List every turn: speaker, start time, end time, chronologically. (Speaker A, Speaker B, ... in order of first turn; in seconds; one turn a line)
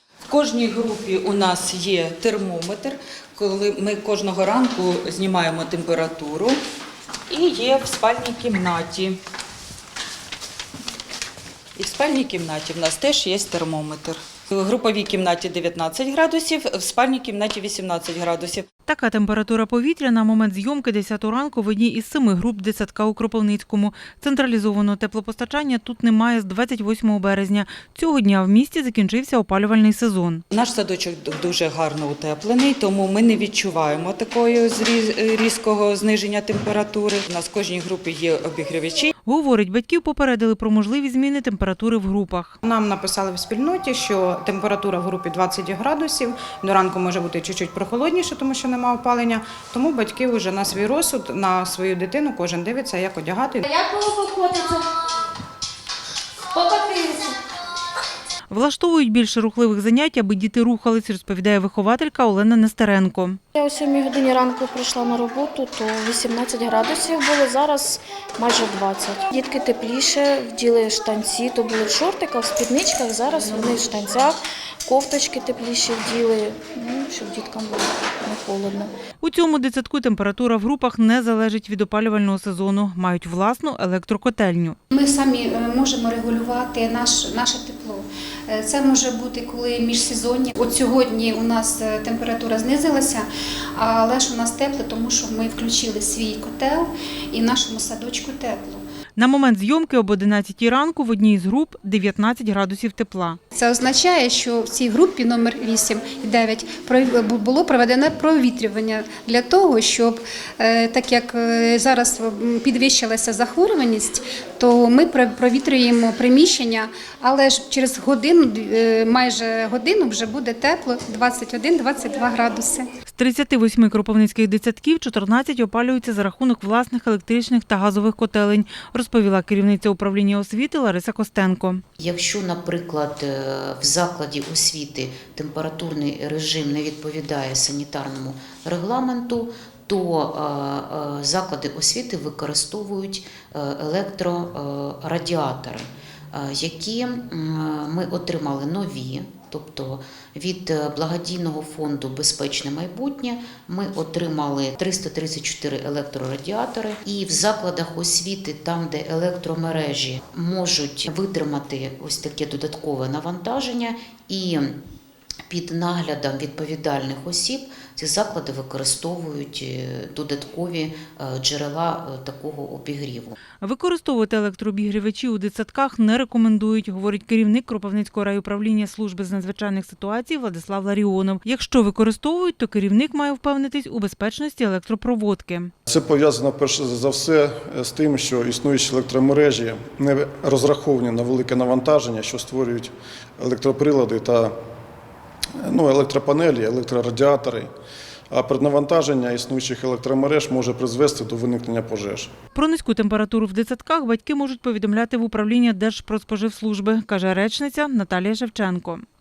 Speaker A: 0.3-6.6
Speaker A: 7.3-9.2
Speaker A: 11.8-18.7
Speaker B: 18.9-30.4
Speaker A: 30.5-39.1
Speaker B: 39.2-42.6
Speaker C: 42.6-53.6
Speaker D: 53.6-54.8
Speaker D: 56.5-57.4
Speaker B: 58.5-63.4
Speaker E: 63.5-78.9
Speaker B: 79.2-84.8
Speaker F: 84.9-98.8
Speaker B: 99.2-103.4
Speaker F: 103.5-122.9
Speaker B: 123.1-131.8
Speaker G: 132.0-164.8
Speaker G: 165.5-173.4
Speaker B: 173.6-185.7
Speaker H: 185.9-194.5
Speaker H: 195.6-197.7
Speaker H: 198.3-202.3
Speaker B: 202.6-209.1